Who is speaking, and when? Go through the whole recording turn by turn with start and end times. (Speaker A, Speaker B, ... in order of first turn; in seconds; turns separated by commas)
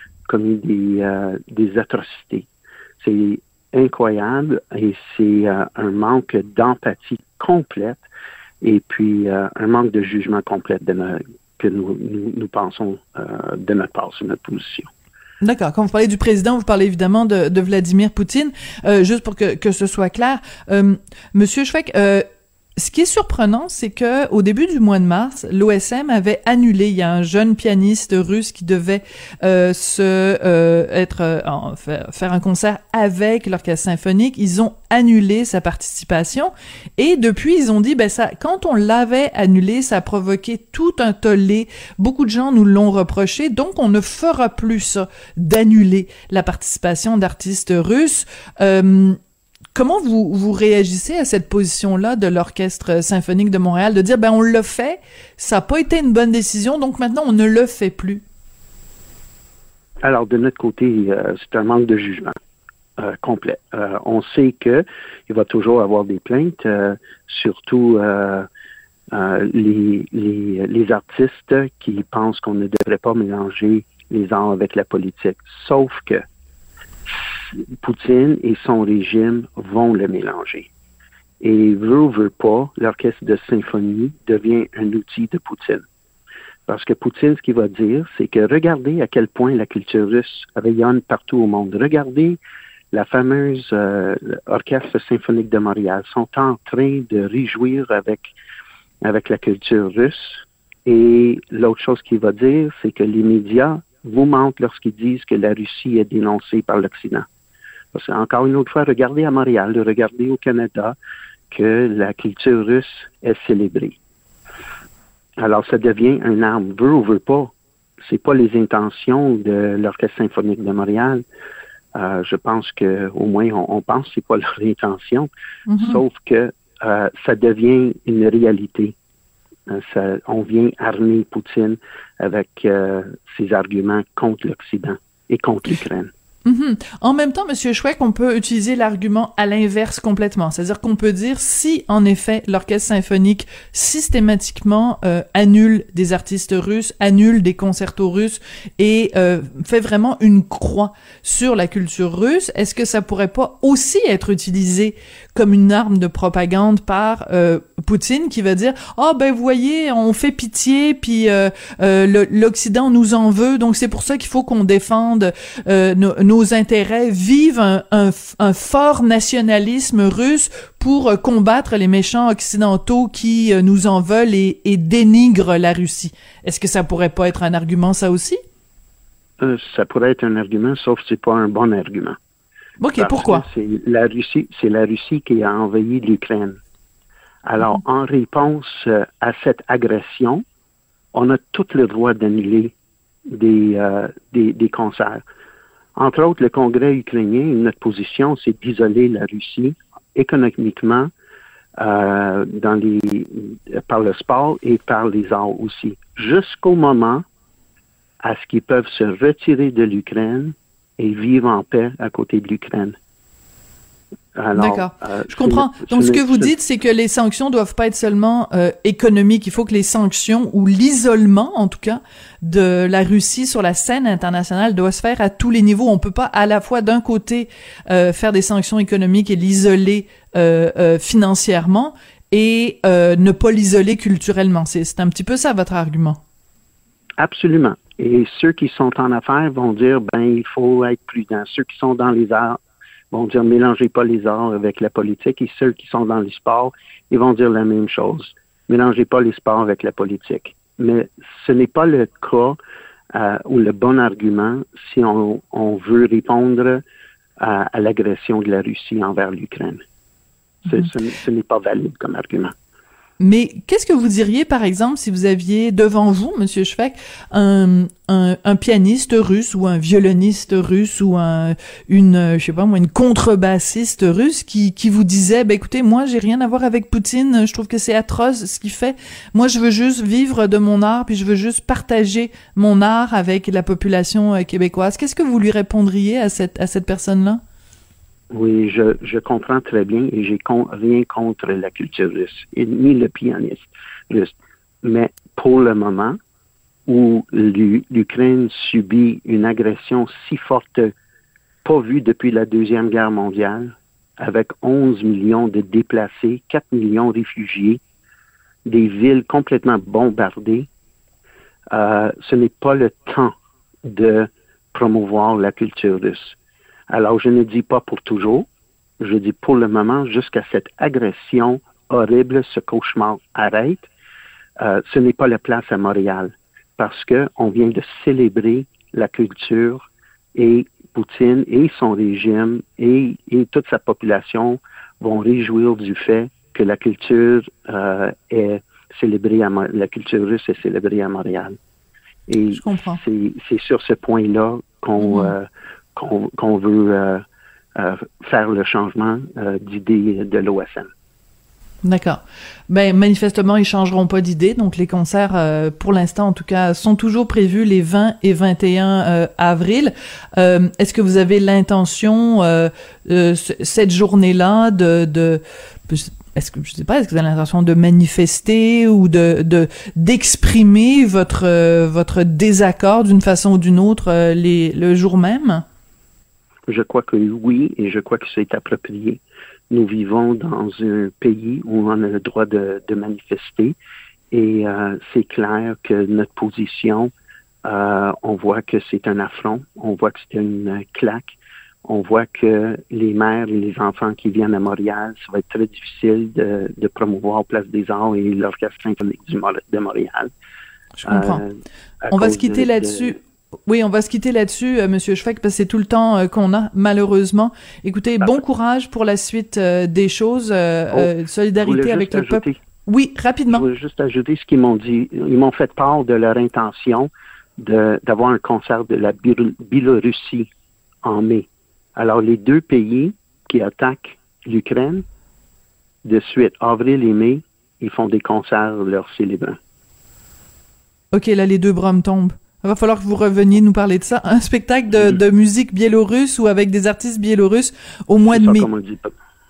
Speaker A: 0.3-2.5, Speaker A: 3.0-8.1, Speaker A: 8.6-14.9, Speaker B: 15.4-22.2, Speaker B: 22.8-49.2, Speaker B: 49.7-58.2, Speaker A: 60.0-62.4, Speaker A: 63.0-68.5, Speaker A: 69.1-76.2, Speaker A: 77.5-80.7, Speaker A: 81.4-85.8, Speaker A: 86.7-92.4, Speaker A: 92.9-98.3, Speaker A: 99.0-107.3, Speaker A: 107.9-111.0, Speaker A: 111.5-114.0, Speaker A: 115.4-117.5, Speaker A: 118.0-121.2, Speaker A: 122.0-128.9, Speaker B: 125.7-126.0, Speaker A: 129.7-136.1, Speaker B: 136.4-178.4, Speaker A: 179.4-182.2, Speaker B: 182.8-183.5, Speaker A: 183.0-186.6, Speaker A: 187.4-190.4, Speaker A: 191.1-192.7, Speaker A: 193.3-195.2, Speaker A: 196.0-201.1, Speaker A: 201.8-207.2, Speaker A: 208.2-213.0, Speaker A: 214.3-216.5, Speaker B: 214.6-236.2, Speaker A: 237.2-242.6, Speaker A: 243.1-252.6, Speaker A: 253.1-256.8, Speaker A: 257.4-259.8, Speaker A: 260.7-262.5, Speaker B: 263.2-287.4, Speaker A: 288.3-296.2, Speaker A: 296.9-300.9, Speaker A: 301.6-307.8, Speaker A: 308.6-310.7, Speaker A: 311.7-313.3, Speaker A: 313.9-316.4, Speaker A: 316.9-318.5, Speaker A: 319.0-323.9, Speaker A: 324.6-341.6, Speaker A: 342.3-347.2, Speaker B: 342.5-343.0, Speaker B: 345.0-345.3, Speaker A: 347.8-350.9, Speaker B: 351.8-375.6, Speaker A: 376.7-383.8, Speaker A: 384.3-387.1, Speaker A: 387.6-400.3, Speaker B: 401.0-401.4, Speaker A: 401.1-403.2, Speaker B: 402.1-413.6, Speaker A: 410.9-412.6, Speaker A: 413.5-420.5, Speaker A: 421.0-425.1, Speaker A: 426.0-429.6, Speaker B: 431.1-438.7, Speaker A: 438.3-439.1